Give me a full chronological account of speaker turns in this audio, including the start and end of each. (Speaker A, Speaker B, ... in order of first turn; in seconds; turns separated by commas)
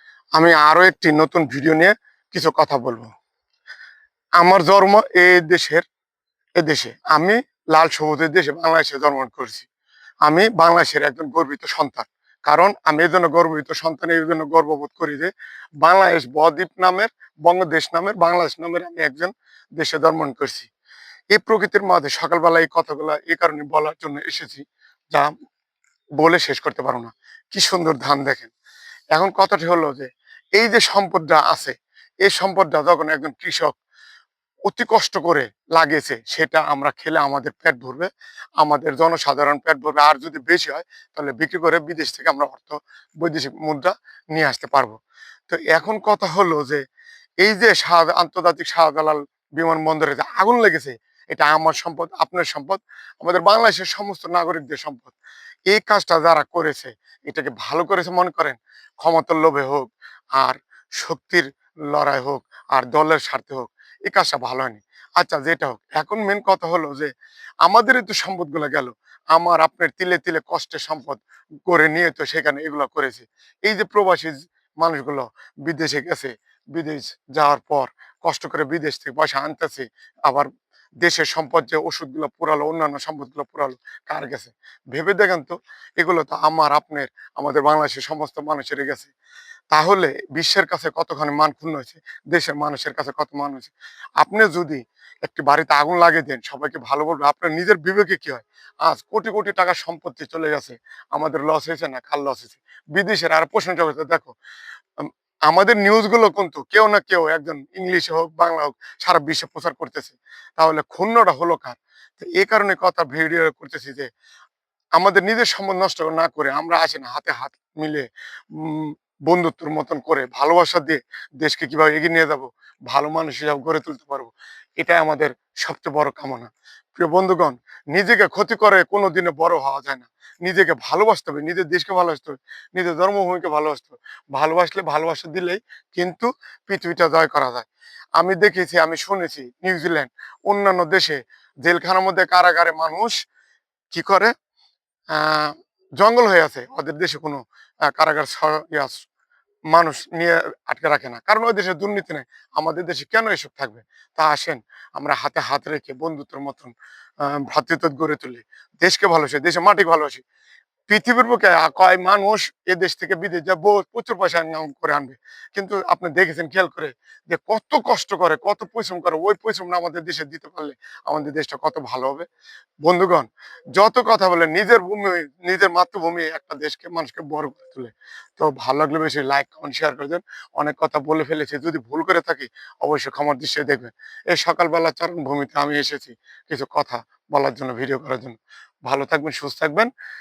Speaker A: 0.4-3.1, Speaker A: 4.4-5.8, Speaker A: 6.6-9.7, Speaker A: 10.2-15.3, Speaker A: 15.8-20.7, Speaker A: 21.3-25.3, Speaker A: 26.2-28.5, Speaker A: 29.1-33.7, Speaker A: 34.7-38.1, Speaker A: 38.6-45.0, Speaker A: 45.5-46.8, Speaker A: 47.4-55.2, Speaker A: 55.7-67.1, Speaker A: 67.6-80.5, Speaker A: 81.0-89.1, Speaker A: 89.7-104.3, Speaker A: 105.0-114.1, Speaker A: 115.0-143.1, Speaker A: 143.9-144.3, Speaker A: 145.1-147.4, Speaker A: 147.9-149.0, Speaker A: 149.7-156.7, Speaker A: 157.2-160.2, Speaker A: 160.9-172.3, Speaker A: 172.8-189.9